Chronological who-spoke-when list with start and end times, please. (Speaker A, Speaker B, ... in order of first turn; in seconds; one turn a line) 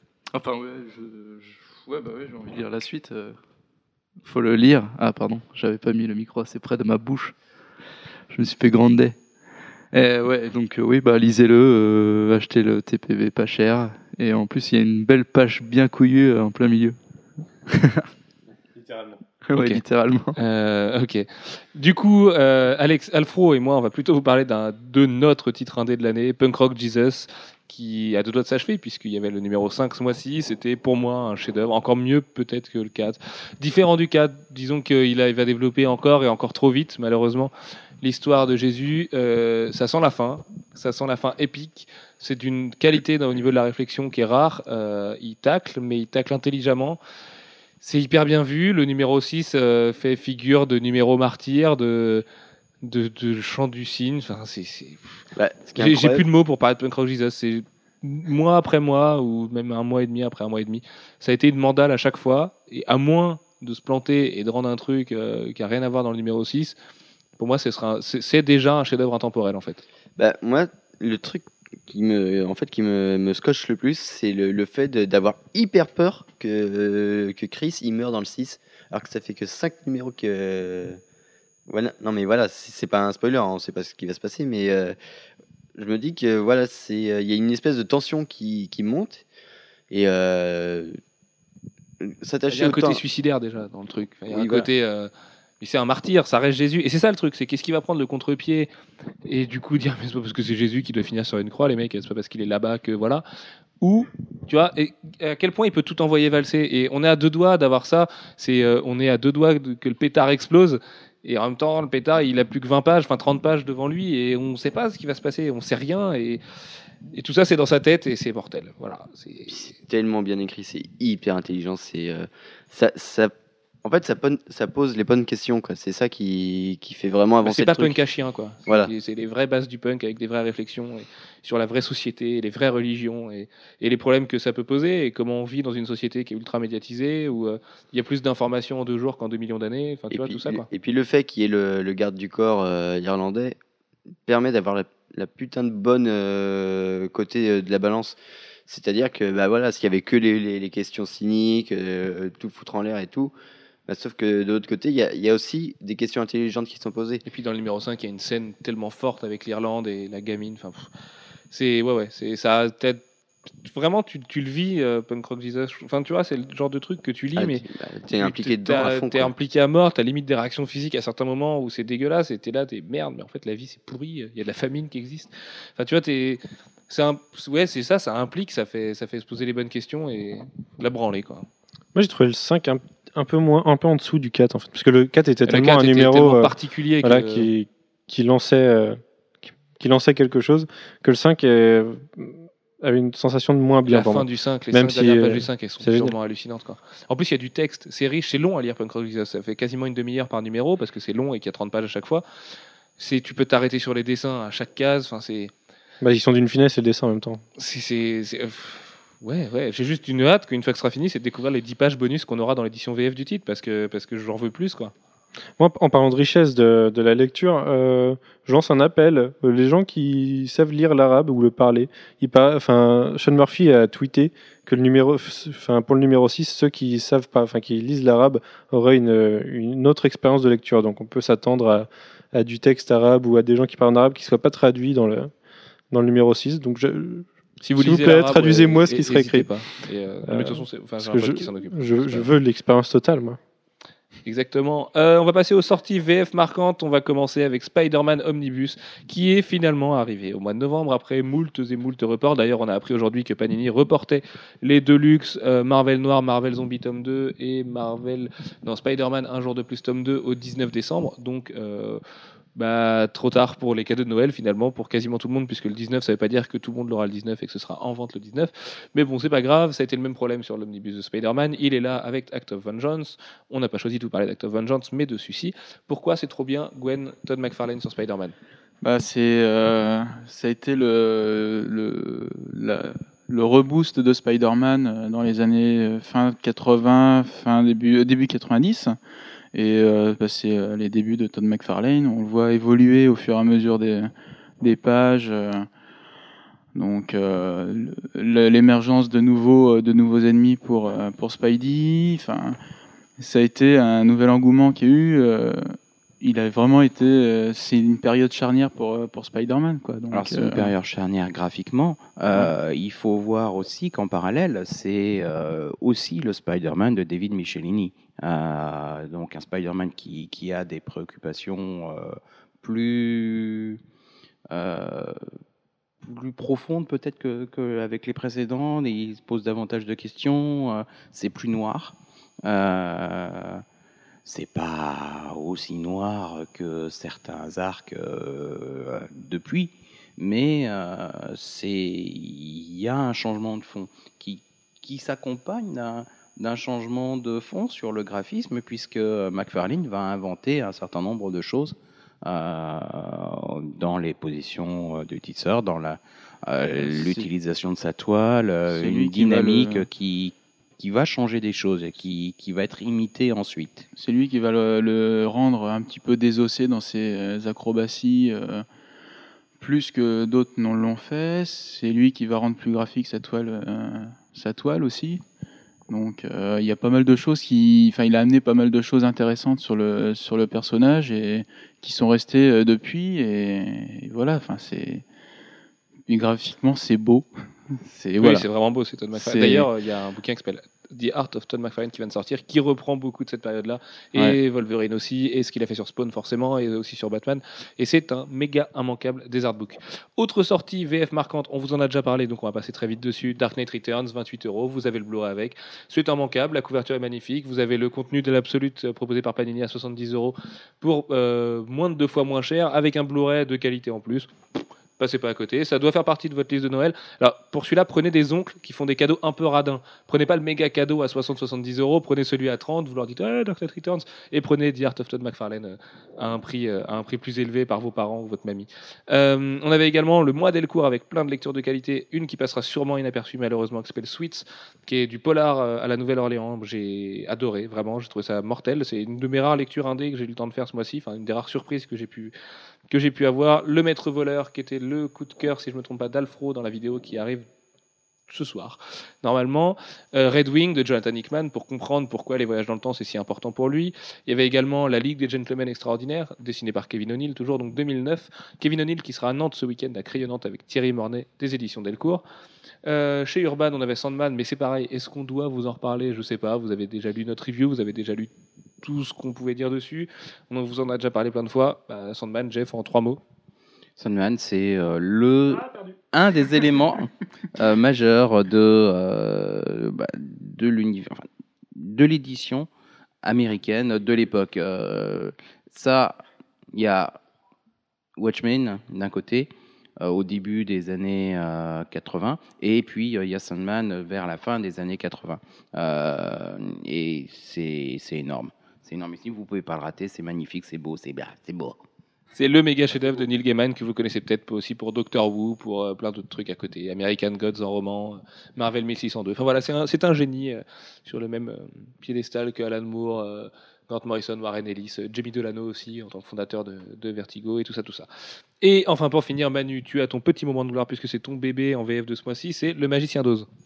Speaker A: 0.3-3.4
Speaker A: 4.2-7.3
Speaker A: 8.3-9.2
Speaker A: 9.9-17.0
Speaker A: 17.7-18.1
Speaker B: 18.7-19.2
Speaker A: 19.4-20.4
Speaker C: 19.5-19.8
Speaker C: 20.3-47.0
Speaker C: 47.8-52.2
Speaker C: 52.8-55.1
Speaker D: 55.4-56.2
Speaker C: 55.8-66.8
Speaker C: 67.4-69.8
Speaker D: 70.2-81.0
Speaker D: 81.7-85.0
Speaker D: 85.8-89.2
Speaker D: 89.9-91.0
Speaker D: 92.0-93.0
Speaker C: 92.5-98.7
Speaker D: 94.3-94.7
Speaker C: 99.2-103.2
Speaker C: 103.8-116.4
Speaker C: 117.1-119.7
Speaker D: 119.5-128.0
Speaker C: 127.4-140.7
Speaker D: 140.1-143.6
Speaker D: 144.2-153.3
Speaker D: 153.9-157.2
Speaker C: 157.2-160.9
Speaker C: 161.5-163.0
Speaker C: 163.6-167.6
Speaker D: 167.3-169.3
Speaker C: 168.2-181.5
Speaker B: 181.9-189.0
Speaker C: 185.4-187.5
Speaker B: 189.8-196.1
Speaker C: 193.8-202.2
Speaker C: 203.0-205.5
Speaker B: 206.0-207.4
Speaker C: 207.6-214.9
Speaker B: 215.6-235.3
Speaker B: 235.9-239.5
Speaker C: 237.6-242.3
Speaker B: 240.2-243.4
Speaker C: 244.2-262.0
Speaker C: 262.6-278.3
Speaker E: 278.8-289.0
Speaker E: 289.5-295.7
Speaker E: 296.7-302.6
Speaker E: 303.2-310.7
Speaker F: 310.1-323.8
Speaker F: 324.5-325.2
Speaker F: 326.0-333.6
Speaker F: 334.2-363.8
Speaker E: 356.7-357.3
Speaker E: 358.7-359.9
Speaker E: 364.0-368.6
Speaker E: 369.6-375.2
Speaker E: 375.9-385.1
Speaker E: 386.1-388.5
Speaker C: 388.2-414.3
Speaker E: 389.1-389.7
Speaker C: 415.0-442.3
Speaker C: 442.9-447.4
Speaker C: 448.3-462.2
Speaker C: 462.8-468.3
Speaker C: 468.8-473.2
Speaker F: 474.0-482.7
Speaker F: 483.2-486.2
Speaker F: 486.7-487.2
Speaker F: 488.2-501.8
Speaker C: 502.3-518.1
Speaker C: 518.6-523.5